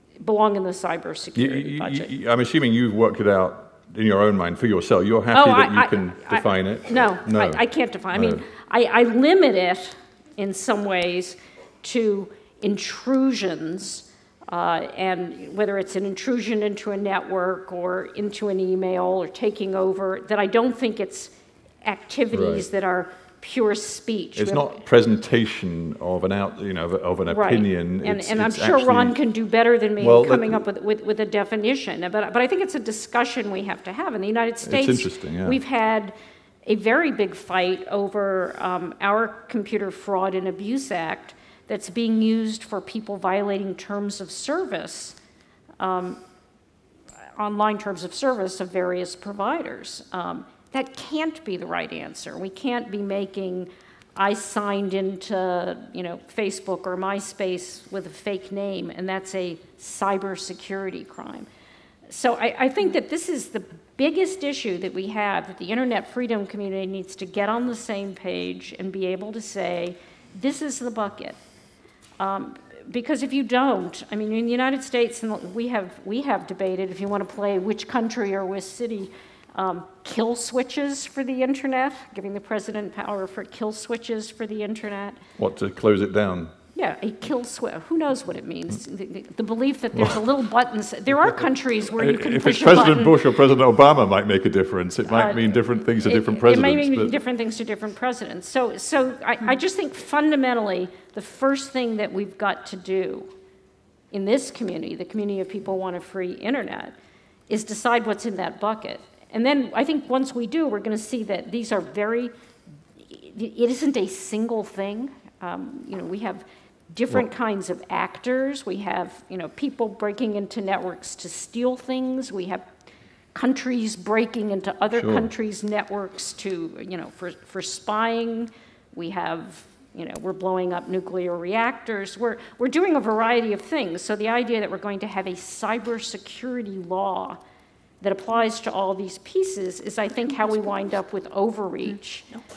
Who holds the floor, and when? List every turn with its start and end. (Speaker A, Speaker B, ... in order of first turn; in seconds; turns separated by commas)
Speaker A: 0.2-2.1, Speaker B: 1.3-7.6, Speaker A: 5.3-21.3, Speaker B: 8.1-8.4, Speaker A: 21.8-24.8, Speaker B: 22.3-22.7, Speaker B: 24.4-29.1, Speaker A: 27.3-45.1, Speaker B: 30.0-30.6, Speaker B: 34.6-35.6, Speaker A: 45.8-46.2, Speaker A: 47.4-61.5, Speaker A: 62.1-71.4, Speaker A: 72.2-85.2, Speaker B: 85.4-86.5, Speaker A: 86.8-93.2, Speaker B: 89.9-90.2, Speaker B: 92.0-97.1, Speaker A: 95.1-103.3, Speaker A: 104.1-106.9, Speaker A: 107.5-112.3, Speaker A: 113.1-122.7, Speaker A: 123.3-137.4, Speaker B: 124.9-125.3, Speaker A: 138.0-142.2